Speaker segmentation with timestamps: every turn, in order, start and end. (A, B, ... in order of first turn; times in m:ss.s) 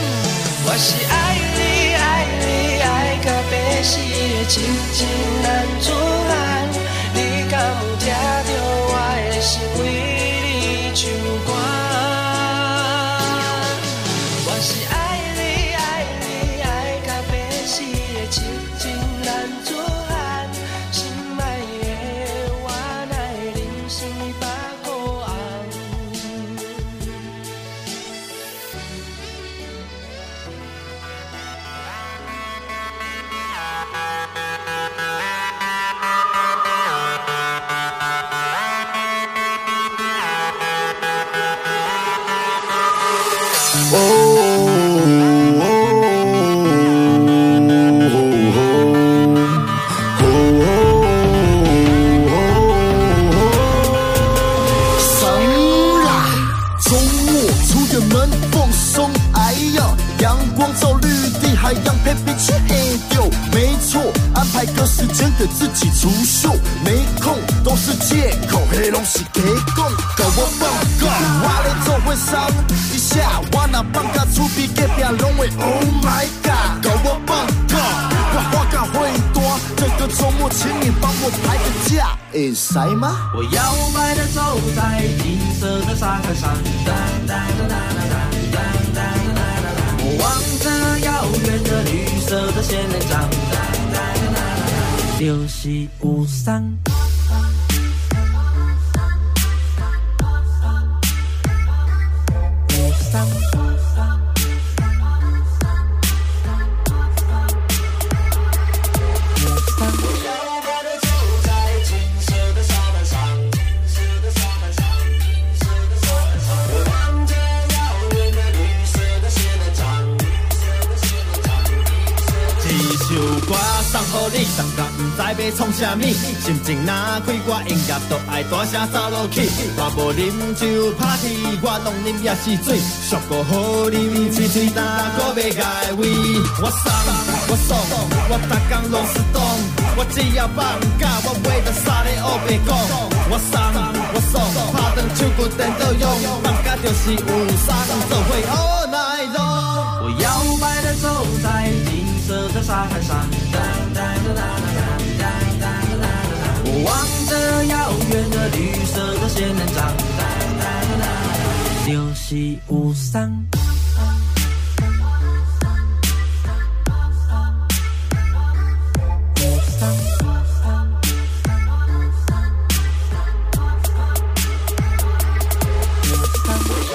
0:00.6-0:26.4 A
0:50.2-0:53.3 B
0:55.0-1:23.3 B
1:23.3-1:36.5 C
1:35.3-1:36.8 A
1:42.7-1:43.6 A
1:49.6-1:50.1 A
2:02.6-2:29.8 D
2:30.0-2:41.0 C
2:41.8-2:43.4 C
2:42.6-2:43.4 A